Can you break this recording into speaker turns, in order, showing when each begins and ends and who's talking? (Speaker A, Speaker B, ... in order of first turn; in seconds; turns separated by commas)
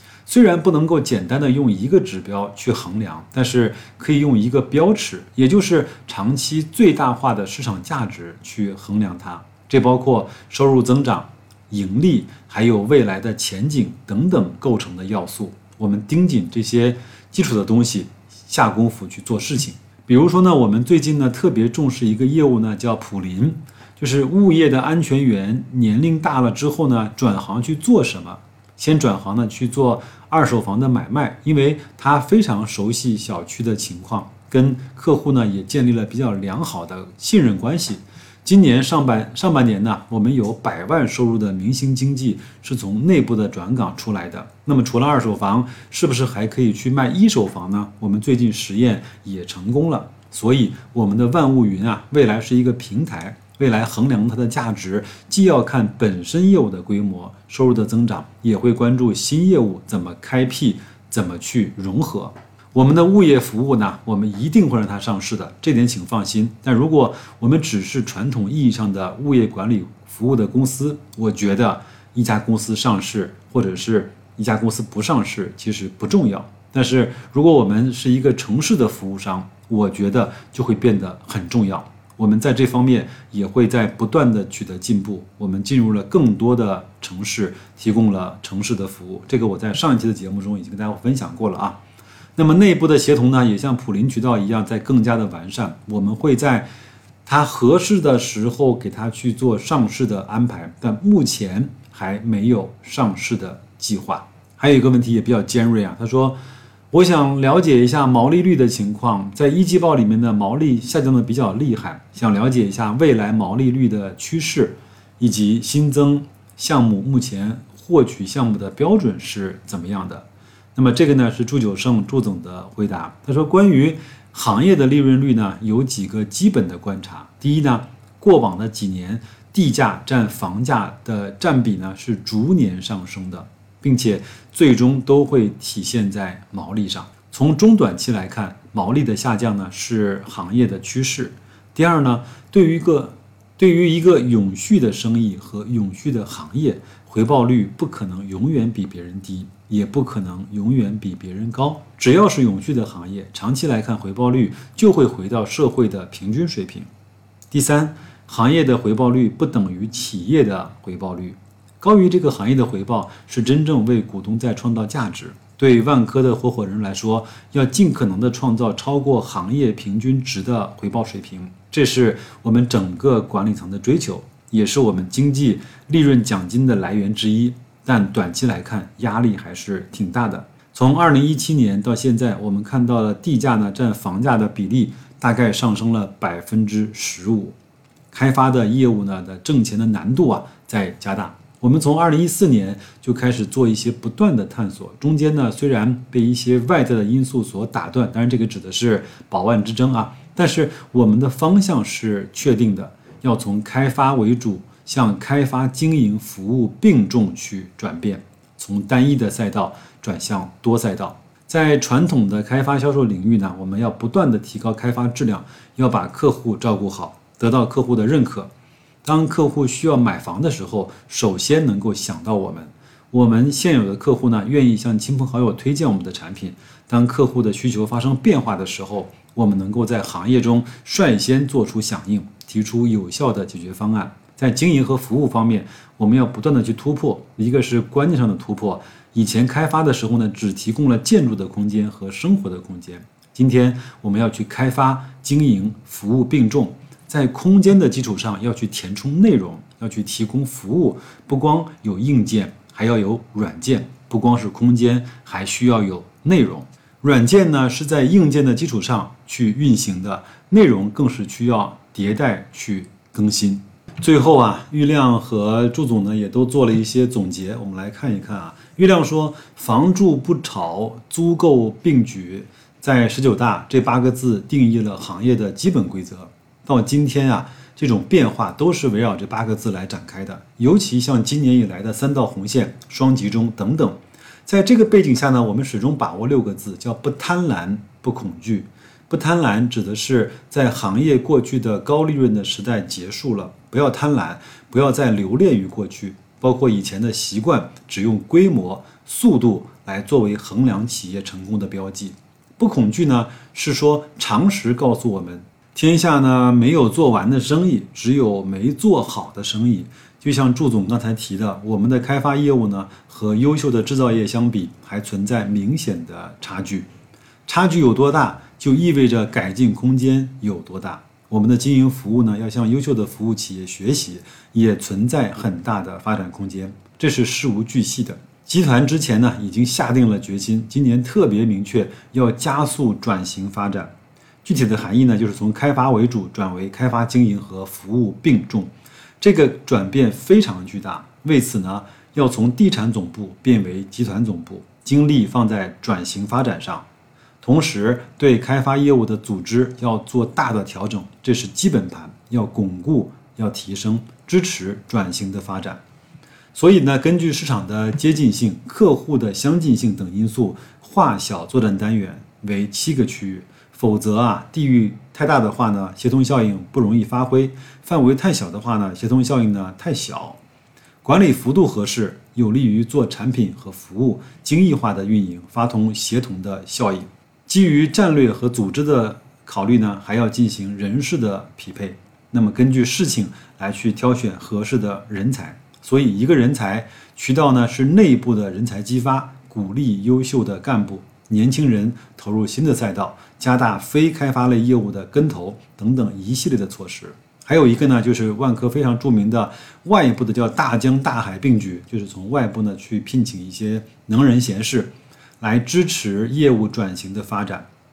Speaker A: 0.3-91.8, Speaker A: 92.4-96.7, Speaker A: 97.3-106.4, Speaker A: 106.9-156.9, Speaker A: 157.5-187.6, Speaker A: 188.1-218.5, Speaker A: 219.0-316.9, Speaker A: 317.5-333.9, Speaker A: 334.4-346.9, Speaker A: 347.4-355.8, Speaker A: 356.5-370.4, Speaker A: 371.0-407.7